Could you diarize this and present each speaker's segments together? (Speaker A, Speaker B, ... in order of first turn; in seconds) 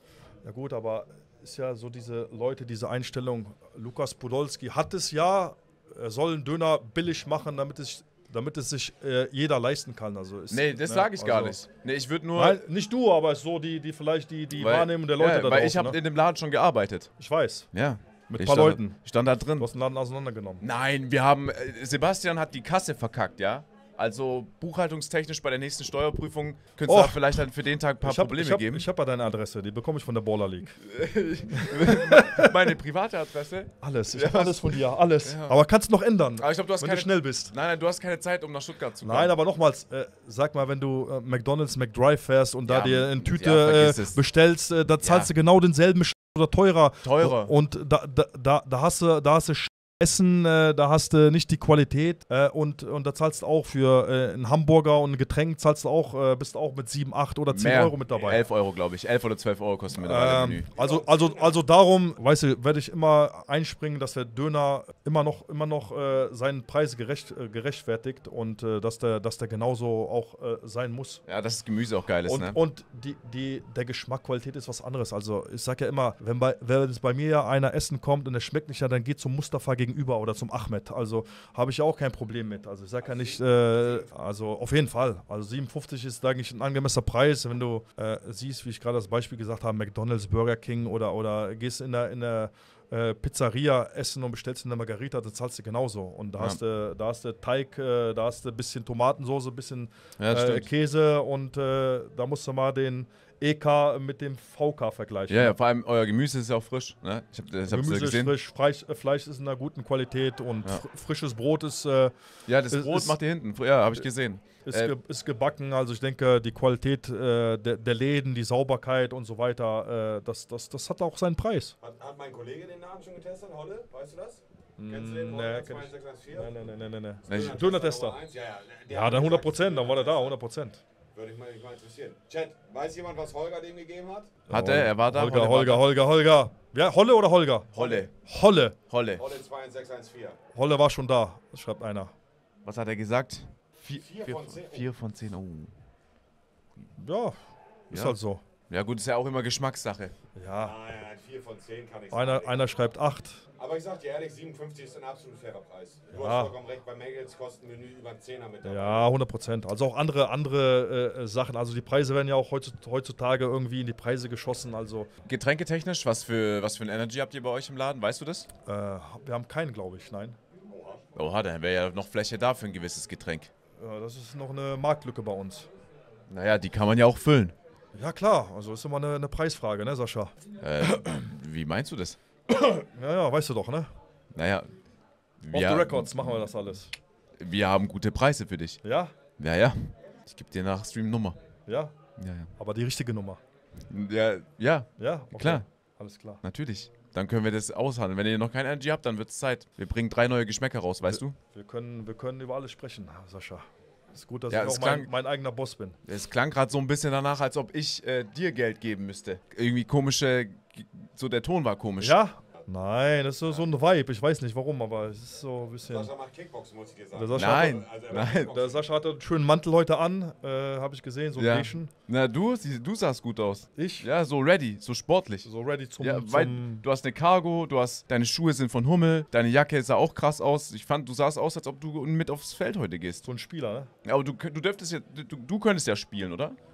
Speaker A: 0.4-11.7, 12.3-16.0, 17.2-17.7, 18.3-20.6, 26.9-27.4, 28.0-30.8, 31.6-32.5, 33.8-37.5, 39.0-58.4, 60.0-71.2, 72.2-105.5, 107.7-113.2, 114.6-121.8, 124.8-128.2, 128.9-130.8, 134.5-138.8, 140.5-142.1, 147.0-148.4, 150.3-150.8, 152.1-153.5, 156.1-156.6, 158.6-165.1, 168.7-170.4, 173.7-175.7, 177.9-180.9, 182.5-183.9, 185.5-186.9, 188.8-189.2, 191.7-192.0, 192.6-193.4, 195.0-196.4, 201.1-206.0, 212.0-216.1, 217.1-221.9, 223.7-224.1, 225.4-226.8, 233.2-233.9
Speaker B: 10.5-12.7, 14.5-19.7, 20.6-28.9, 30.8-35.8, 36.4-39.4, 42.7-44.2, 45.0-45.3, 47.0-47.5, 57.5-60.7, 71.3-72.6, 100.2-100.7, 105.3-108.3, 112.5-115.0, 127.3-127.6, 134.5-136.0, 137.7-138.2, 138.9-139.2, 142.7-145.8, 147.9-150.2, 165.3-168.5, 171.2-173.5, 176.3-177.6, 180.6-182.2, 184.3-184.8, 185.4-186.3, 187.4-191.4, 192.2-192.5, 193.9-195.7, 196.4-201.4, 204.5-205.1, 206.1-212.2, 217.3-218.7, 221.4-233.2, 234.1-236.6
Speaker C: 60.7-61.6, 83.0-84.2, 121.8-126.6, 127.3-130.4, 131.1-134.4, 139.2-140.4, 143.9-144.9, 150.6-152.9, 153.6-159.1, 170.7-171.0, 215.8-218.9